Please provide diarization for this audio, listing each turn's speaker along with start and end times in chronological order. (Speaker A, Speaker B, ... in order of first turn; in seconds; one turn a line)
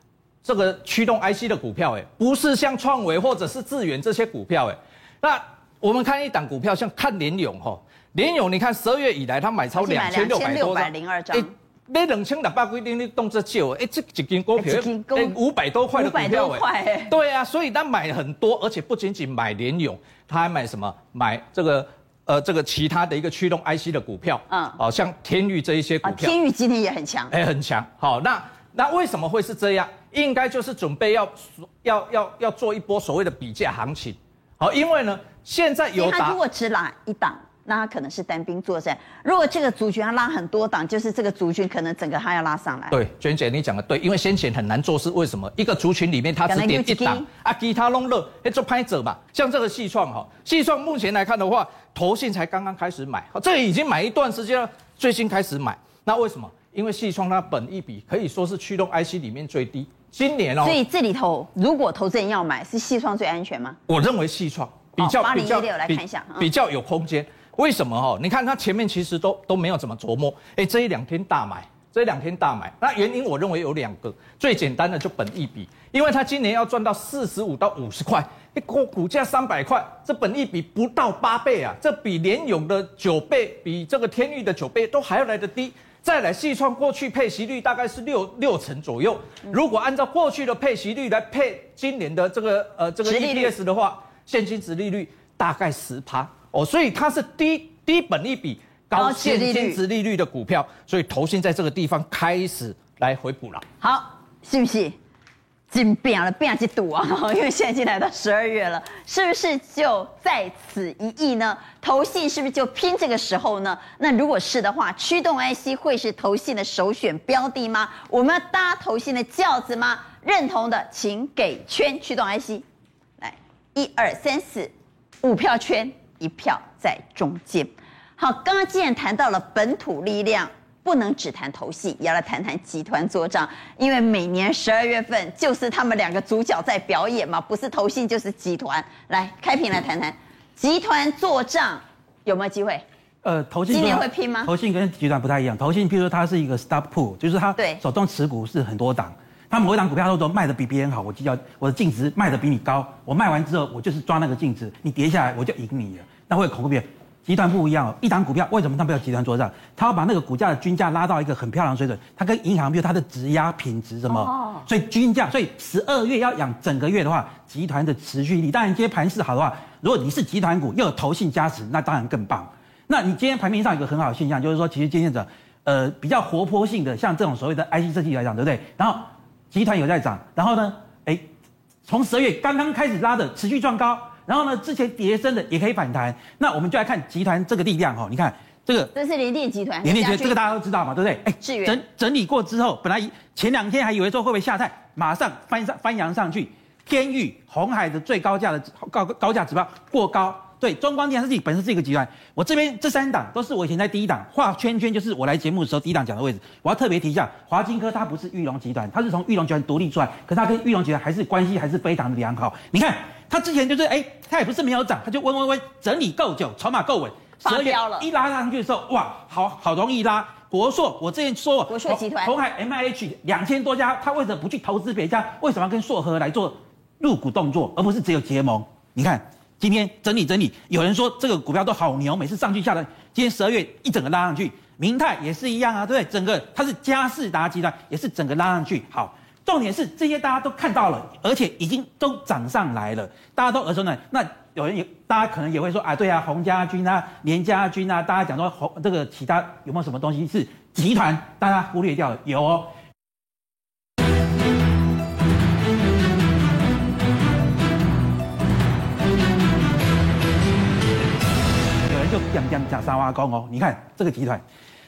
Speaker A: 0.4-26.4
Speaker B: 9.7-11.5
Speaker B: 14.6-15.4
Speaker B: 15.9-17.1
Speaker B: 24.5-24.8
Speaker B: 26.0-27.3
Speaker A: 27.3-36.4
Speaker B: 36.0-43.0
Speaker A: 42.9-60.8
Speaker B: 46.5-47.3
Speaker B: 60.6-63.8
Speaker A: 63.9-103.7
Speaker B: 65.0-66.5
Speaker B: 93.0-93.5
Speaker B: 99.0-99.8
Speaker B: 103.8-105.0
Speaker B: 105.7-122.6
Speaker B: 123.2-124.7
Speaker B: 125.2-142.8
Speaker C: 143.2-181.3
Speaker B: 143.7-144.5
Speaker B: 147.6-147.8
Speaker B: 164.1-164.7
Speaker C: 181.9-188.9
Speaker B: 188.9-190.4
Speaker C: 189.8-252.7
Speaker B: 191.4-191.8
Speaker B: 217.4-218.1
Speaker B: 221.7-222.3
Speaker C: 261.9-264.4